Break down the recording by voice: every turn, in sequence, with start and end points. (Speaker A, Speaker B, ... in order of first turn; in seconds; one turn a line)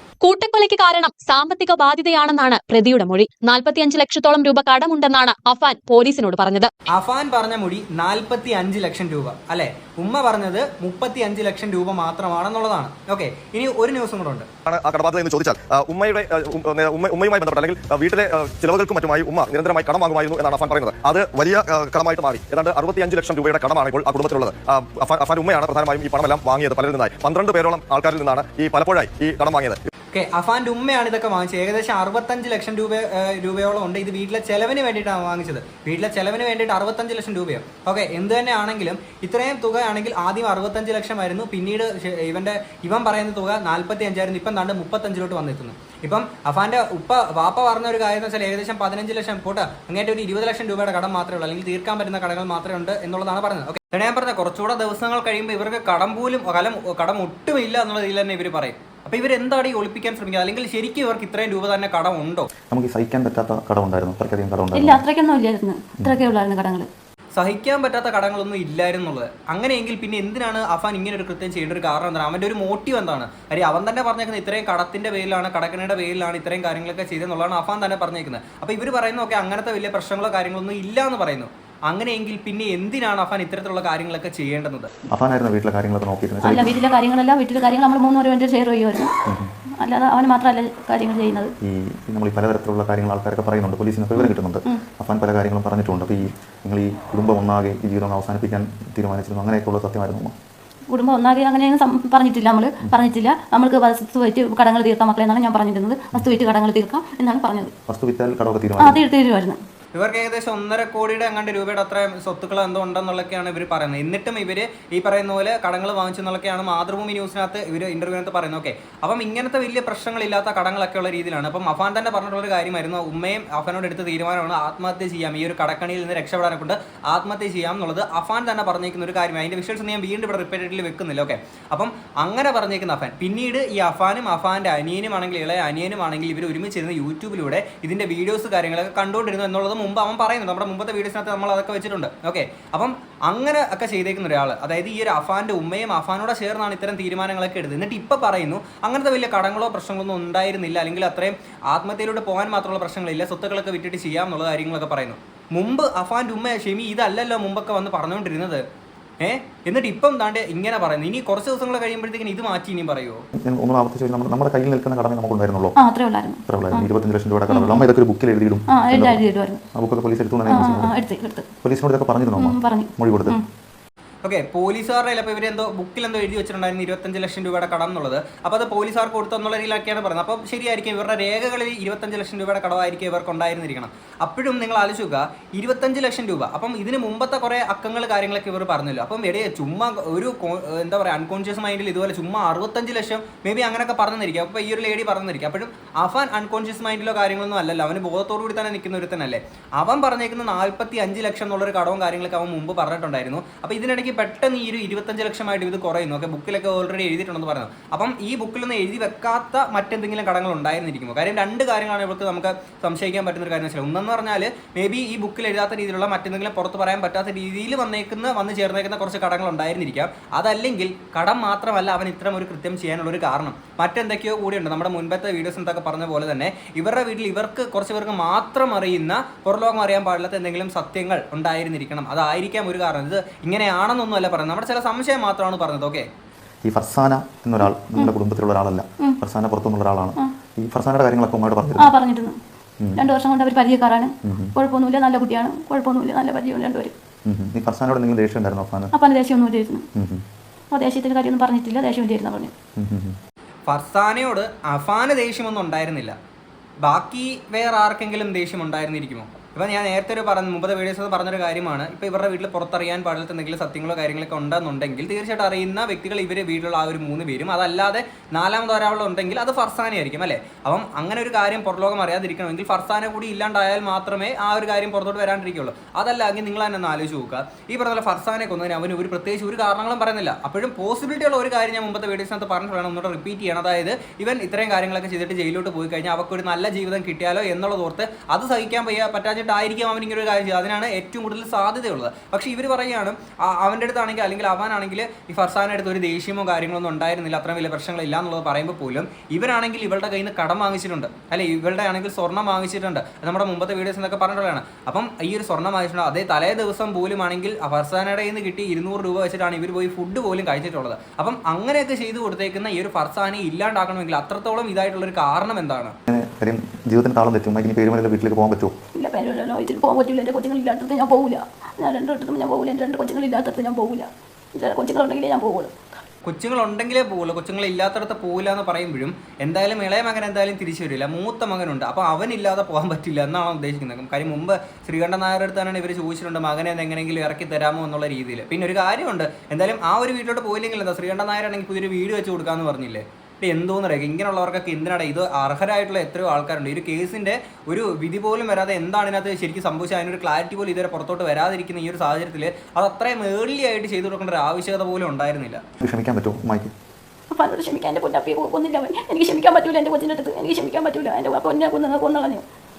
Speaker A: 0.2-6.7
Speaker B: 6.9-14.5
Speaker C: 14.7-29.8
Speaker B: 30.1-62.5
Speaker D: 62.7-65.0
Speaker E: 64.8-66.9
Speaker B: 67.4-84.9
Speaker D: 85.1-86.7
Speaker E: 86.4-89.1
Speaker E: 89.8-91.5
Speaker D: 91.6-100.3
Speaker E: 94.2-94.8
Speaker E: 100.9-107.7
Speaker D: 107.9-109.0
Speaker E: 108.8-109.6
Speaker B: 110.0-158.6
Speaker B: 159.2-163.2
Speaker D: 163.4-165.8
Speaker E: 165.8-166.9
Speaker D: 166.5-169.2
Speaker E: 167.5-167.8
Speaker E: 168.7-169.6
Speaker D: 169.8-170.9
Speaker E: 170.5-171.5
Speaker D: 171.6-173.4
Speaker E: 172.4-173.4
Speaker B: 174.2-236.1
Speaker D: 236.7-241.9
Speaker E: 241.8-242.4
Speaker E: 243.0-246.9
Speaker D: 244.2-244.5
Speaker D: 247.3-248.9
Speaker E: 248.9-249.9
Speaker D: 250.0-250.2
Speaker E: 250.7-252.5
Speaker D: 252.8-253.2
Speaker B: 253.7-256.1
Speaker B: 256.8-315.9
Speaker D: 316.1-318.7
Speaker E: 319.0-325.7
Speaker B: 326.2-355.6
Speaker D: 355.8-356.7
Speaker E: 357.3-362.4